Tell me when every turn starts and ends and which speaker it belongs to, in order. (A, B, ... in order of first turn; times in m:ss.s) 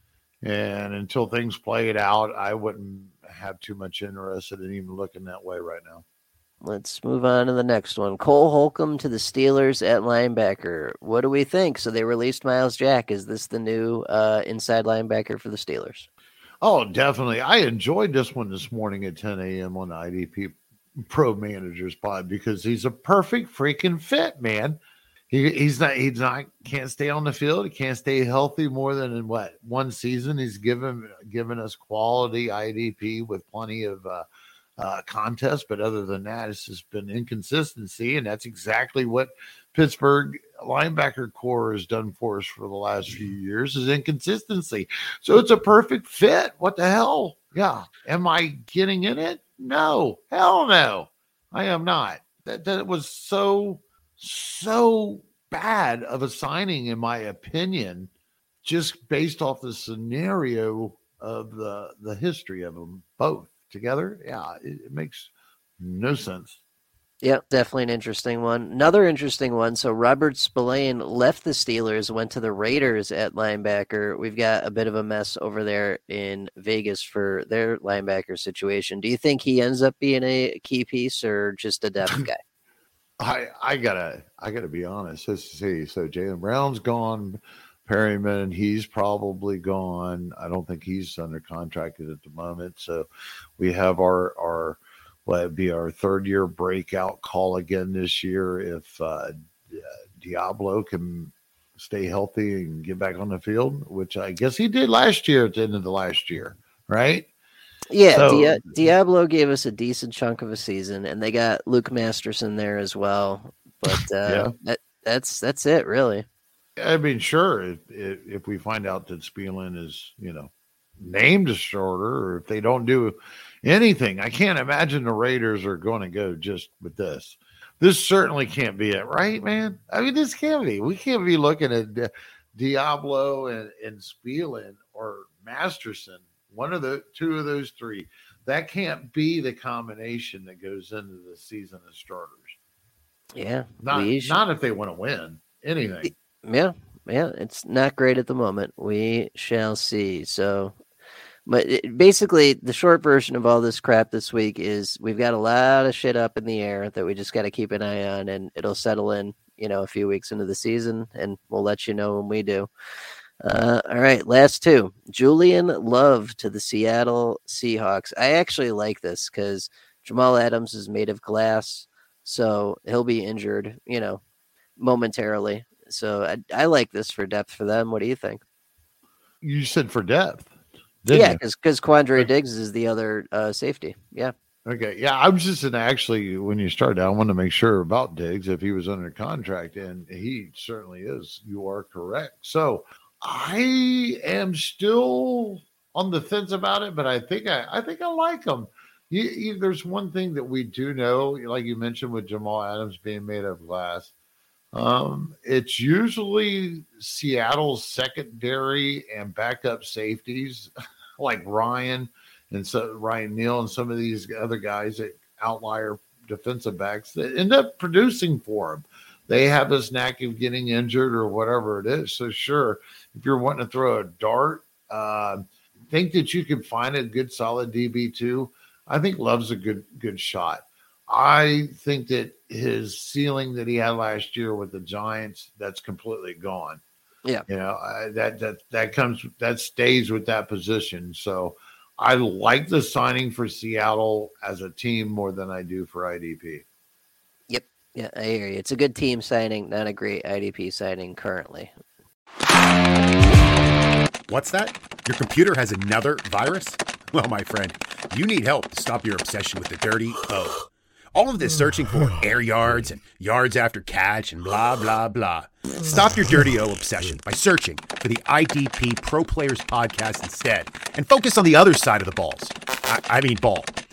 0:00.4-0:06.0 A
0:06.6-0:16.1 B
0:16.6-0:24.8 A
0:25.3-0:34.3 A
0:34.8-0:58.1 A
0:58.6-1:06.6 A
1:07.2-1:22.4 B
1:23.2-1:33.1 A
1:33.6-1:47.3 A
1:47.9-1:56.2 B
1:48.1-1:48.9 A
1:53.9-1:54.5 A
1:56.8-2:22.6 A
2:23.4-2:24.4 B
2:23.8-2:26.1 A
2:26.4-2:30.8 B
2:31.5-2:42.7 B
2:43.4-2:54.2 B
2:54.8-2:58.4 B
2:59.4-3:01.4 A
3:01.1-3:04.3 B
3:04.7-3:24.1 A
3:24.7-3:56.8 A
3:57.5-4:06.6 A
4:07.5-4:11.7 B
4:13.2-4:33.7 C